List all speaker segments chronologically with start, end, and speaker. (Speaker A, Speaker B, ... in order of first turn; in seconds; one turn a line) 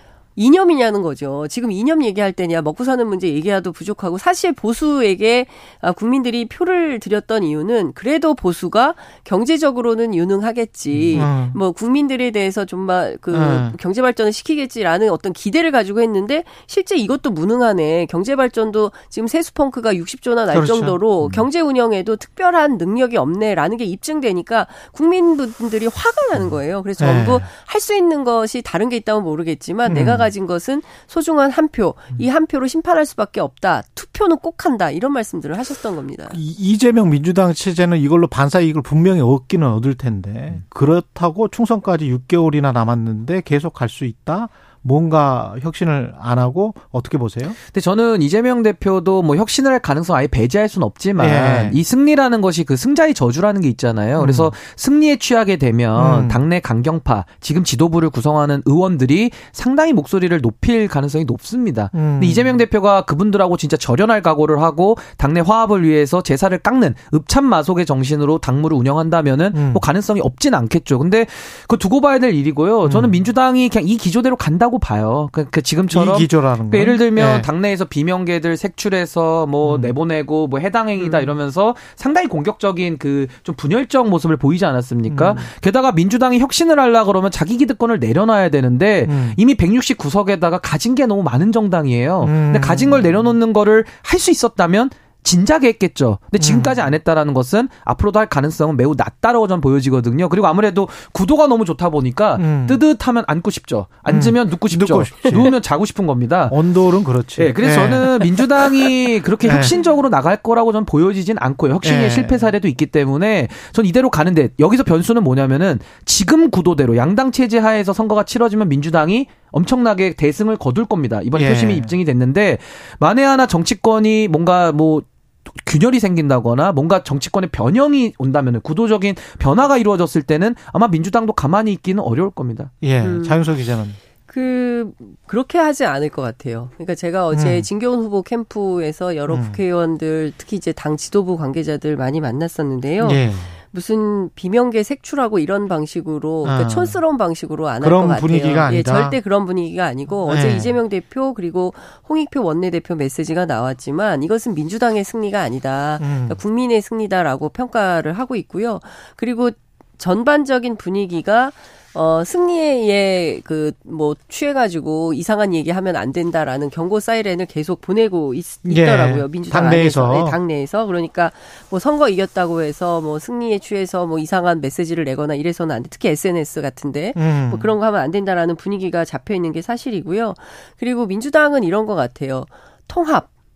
Speaker A: 0.3-36.4
Speaker B: 10.9-11.6
Speaker B: 13.3-13.7
Speaker B: 20.5-21.4
Speaker B: 27.0-27.5
Speaker B: 29.9-30.3
Speaker B: 36.3-47.6
Speaker C: 47.7-106.6
Speaker B: 51.2-51.8
Speaker B: 54.2-54.5
Speaker B: 56.0-56.4
Speaker B: 61.9-62.6
Speaker B: 69.5-69.8
Speaker B: 72.8-73.2
Speaker B: 75.9-77.5
Speaker B: 79.6-79.9
Speaker A: 81.0-81.4
Speaker B: 85.1-85.5
Speaker B: 89.0-89.4
Speaker B: 92.2-93.2
Speaker B: 96.4-96.8
Speaker B: 102.4-102.8
Speaker B: 104.1-105.5
Speaker A: 105.2-105.5
Speaker B: 106.5-108.7
Speaker C: 107.3-132.7
Speaker B: 109.4-109.8
Speaker A: 109.5-110.0
Speaker B: 111.8-112.5
Speaker B: 121.3-121.9
Speaker B: 132.8-134.0
Speaker A: 133.0-133.5
Speaker A: 134.3-183.3
Speaker B: 137.3-137.7
Speaker B: 139.3-139.6
Speaker B: 143.0-143.6
Speaker B: 146.4-147.0
Speaker B: 147.8-149.2
Speaker B: 150.2-150.8
Speaker B: 156.0-156.4
Speaker B: 168.6-170.4
Speaker B: 177.1-177.7